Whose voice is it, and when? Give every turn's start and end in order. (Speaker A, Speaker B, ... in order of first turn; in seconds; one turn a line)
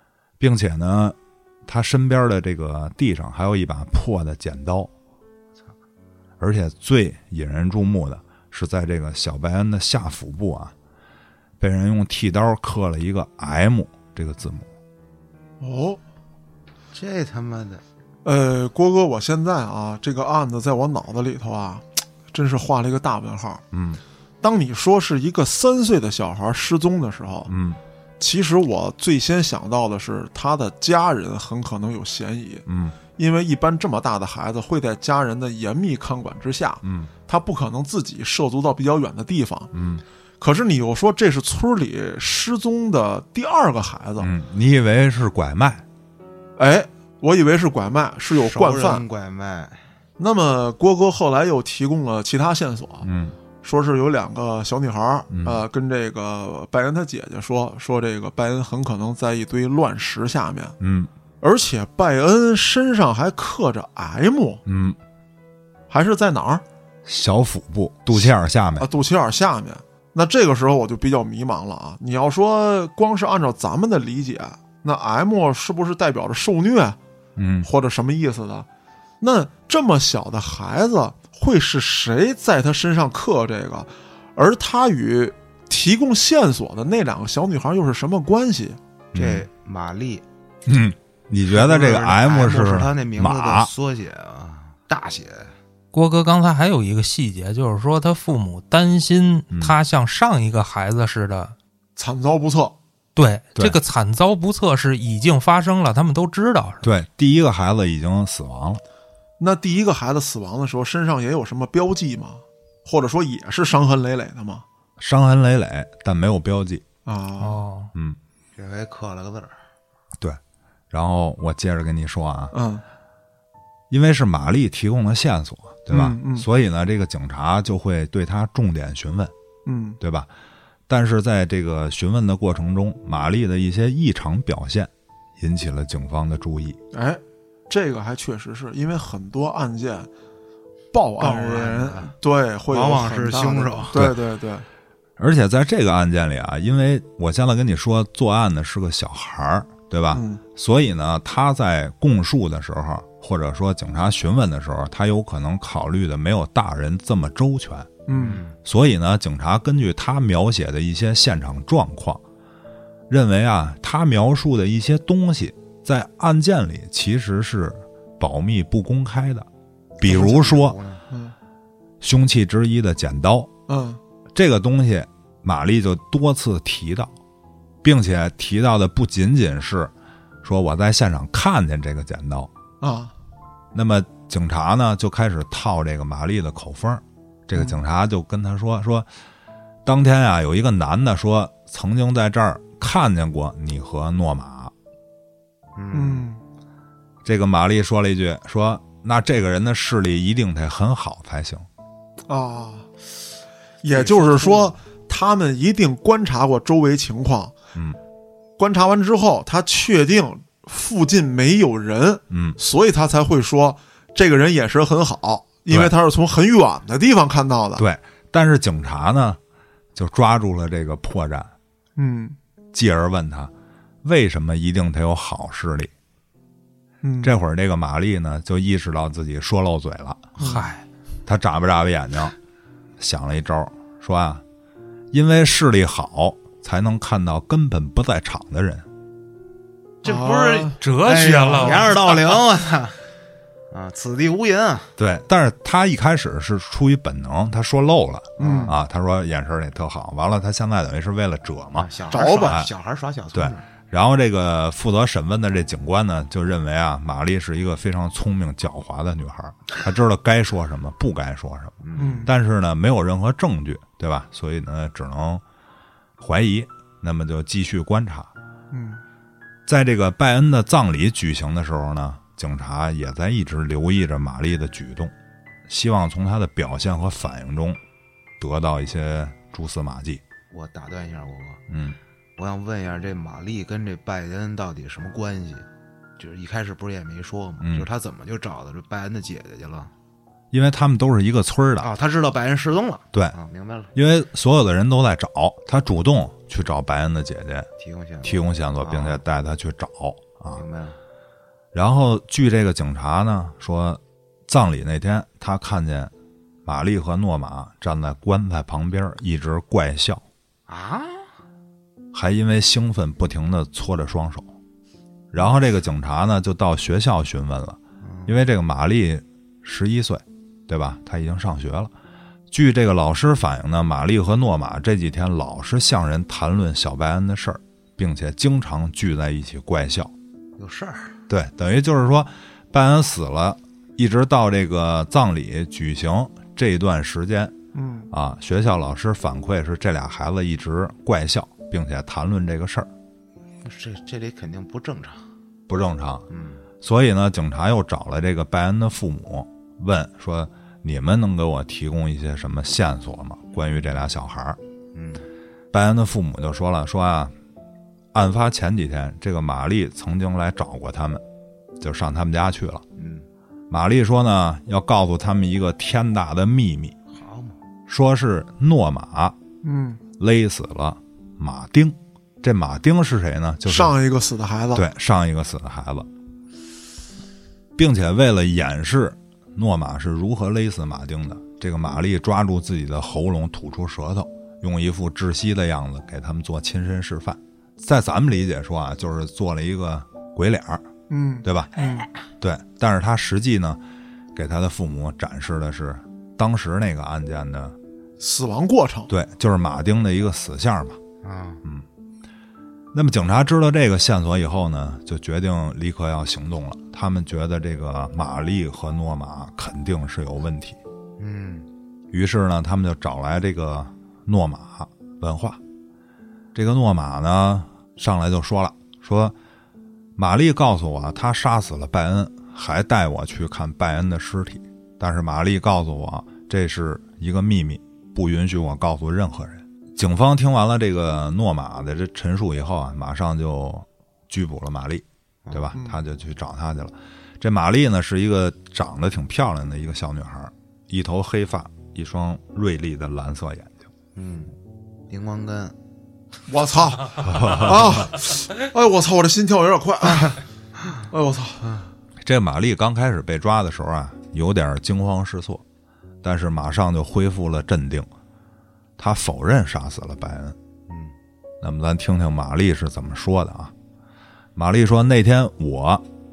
Speaker A: 0.4-4.9
Speaker A: 6.4-10.7
Speaker A: 11.6-14.7
Speaker B: 15.6-16.0
Speaker C: 16.9-17.8
Speaker B: 18.2-23.6
Speaker A: 23.7-24.0
Speaker B: 24.4-27.5
Speaker A: 27.5-27.8
Speaker B: 28.2-39.7
Speaker A: 32.7-33.0
Speaker A: 36.8-37.1
Speaker A: 39.7-40.0
Speaker B: 40.4-44.3
Speaker A: 44.2-45.9
Speaker B: 46.6-49.0
Speaker C: 48.3-49.9
Speaker B: 50.2-53.1
Speaker A: 53.0-53.4
Speaker B: 53.6-60.8
Speaker A: 55.3-55.6
Speaker A: 60.8-61.1
Speaker B: 61.4-64.6
Speaker A: 64.7-65.0
Speaker B: 65.9-66.6
Speaker A: 67.0-68.9
Speaker B: 68.1-77.0
Speaker A: 77.4-77.7
Speaker B: 77.6-78.7
Speaker B: 79.2-88.8
Speaker A: 89.1-89.5
Speaker C: 89.2-90.2
Speaker A: 90.7-93.7
Speaker C: 91.5-95.5
Speaker D: 95.9-101.6
Speaker A: 99.5-99.8
Speaker B: 102.0-102.8
Speaker D: 103.2-106.9
Speaker A: 106.8-108.8
Speaker B: 109.4-114.7
Speaker A: 115.0-116.8
Speaker B: 117.1-117.6
Speaker D: 117.4-117.9
Speaker C: 118.6-119.6
Speaker A: 120.9-122.5
Speaker B: 122.5-122.8
Speaker A: 123.9-129.3
Speaker B: 125.9-126.5
Speaker B: 129.7-130.0
Speaker A: 130.0-130.3
Speaker A: 130.9-136.8
Speaker B: 136.9-140.1
Speaker B: 140.9-144.7
Speaker C: 141.2-142.1
Speaker C: 142.7-144.0
Speaker A: 145.2-158.0
Speaker B: 150.1-150.4
Speaker B: 158.1-158.4
Speaker C: 158.1-158.6
Speaker A: 158.6-162.2
Speaker A: 163.1-169.5
Speaker A: 170.0-170.8
Speaker B: 170.1-170.5
Speaker C: 170.1-171.0
Speaker A: 172.0-173.5
Speaker B: 173.7-174.0
Speaker A: 174.3-177.1
Speaker A: 177.8-179.9
Speaker A: 180.4-182.5
Speaker B: 182.8-183.1
Speaker A: 183.7-189.1
Speaker A: 189.8-194.7
Speaker C: 195.8-196.3
Speaker B: 195.9-196.4
Speaker A: 197.2-201.7
Speaker B: 202.3-202.9
Speaker B: 203.8-207.6
Speaker C: 203.9-204.7
Speaker B: 208.6-217.8
Speaker A: 212.3-212.6
Speaker A: 215.7-215.9
Speaker A: 217.8-219.4
Speaker A: 219.9-221.5
Speaker B: 222.0-222.4
Speaker A: 222.7-223.5
Speaker A: 224.0-225.9
Speaker B: 227.0-227.3
Speaker A: 227.2-230.3
Speaker D: 230.4-230.8
Speaker B: 230.4-230.7
Speaker A: 231.3-232.3
Speaker A: 233.0-234.4
Speaker A: 235.1-238.9
Speaker C: 240.0-243.0
Speaker B: 240.0-240.8
Speaker D: 240.8-242.4
Speaker C: 243.7-244.9
Speaker A: 245.0-251.9
Speaker C: 248.4-248.8
Speaker B: 248.4-248.7
Speaker C: 251.8-253.7
Speaker B: 252.1-252.6
Speaker A: 252.4-252.7
Speaker A: 253.3-265.4
Speaker C: 261.8-262.3
Speaker B: 262.0-262.3
Speaker A: 266.2-268.3
Speaker B: 268.7-269.0
Speaker A: 269.7-275.1
Speaker A: 275.7-277.8
Speaker A: 278.4-280.2
Speaker C: 280.5-281.6
Speaker A: 281.7-282.0
Speaker C: 282.4-285.7
Speaker C: 286.2-289.9
Speaker A: 287.6-287.9
Speaker A: 290.5-291.9
Speaker C: 291.8-293.9
Speaker A: 293.9-297.7
Speaker C: 297.8-299.2
Speaker A: 298.2-300.6
Speaker C: 300.5-301.0
Speaker A: 301.7-306.1
Speaker A: 306.6-310.2
Speaker C: 310.7-311.3
Speaker A: 312.1-314.5
Speaker A: 315.3-321.9
Speaker C: 318.0-318.4
Speaker A: 322.5-330.1
Speaker C: 330.6-331.2
Speaker A: 331.3-337.6
Speaker B: 337.7-338.1
Speaker A: 338.1-342.9
Speaker C: 343.6-345.3
Speaker A: 345.7-346.3
Speaker C: 346.3-346.6
Speaker A: 346.8-354.6
Speaker C: 354.9-355.2
Speaker A: 355.7-357.3
Speaker A: 358.1-361.2
Speaker A: 361.8-362.8
Speaker C: 363.0-363.3
Speaker A: 363.7-366.9
Speaker C: 367.1-367.6
Speaker A: 367.9-369.4
Speaker B: 369.6-370.0
Speaker A: 370.2-373.9
Speaker B: 373.7-374.8
Speaker A: 374.7-376.1
Speaker A: 377.8-390.9
Speaker B: 391.1-392.1
Speaker A: 391.4-391.7
Speaker A: 392.4-393.8
Speaker A: 394.4-397.8
Speaker B: 398.2-399.1
Speaker A: 399.1-401.0
Speaker C: 401.2-401.6
Speaker A: 402.9-410.8
Speaker C: 411.2-411.7
Speaker A: 412.1-415.6
Speaker A: 416.5-419.4
Speaker A: 420.2-443.8
Speaker C: 435.5-435.7
Speaker B: 435.7-436.0
Speaker C: 444.1-444.5
Speaker C: 445.1-445.8
Speaker B: 446.5-450.4
Speaker A: 447.2-448.0
Speaker B: 451.1-451.7
Speaker A: 452.2-455.6
Speaker A: 456.2-458.1
Speaker A: 459.0-460.6
Speaker C: 460.9-461.1
Speaker A: 461.6-463.7
Speaker A: 464.6-466.1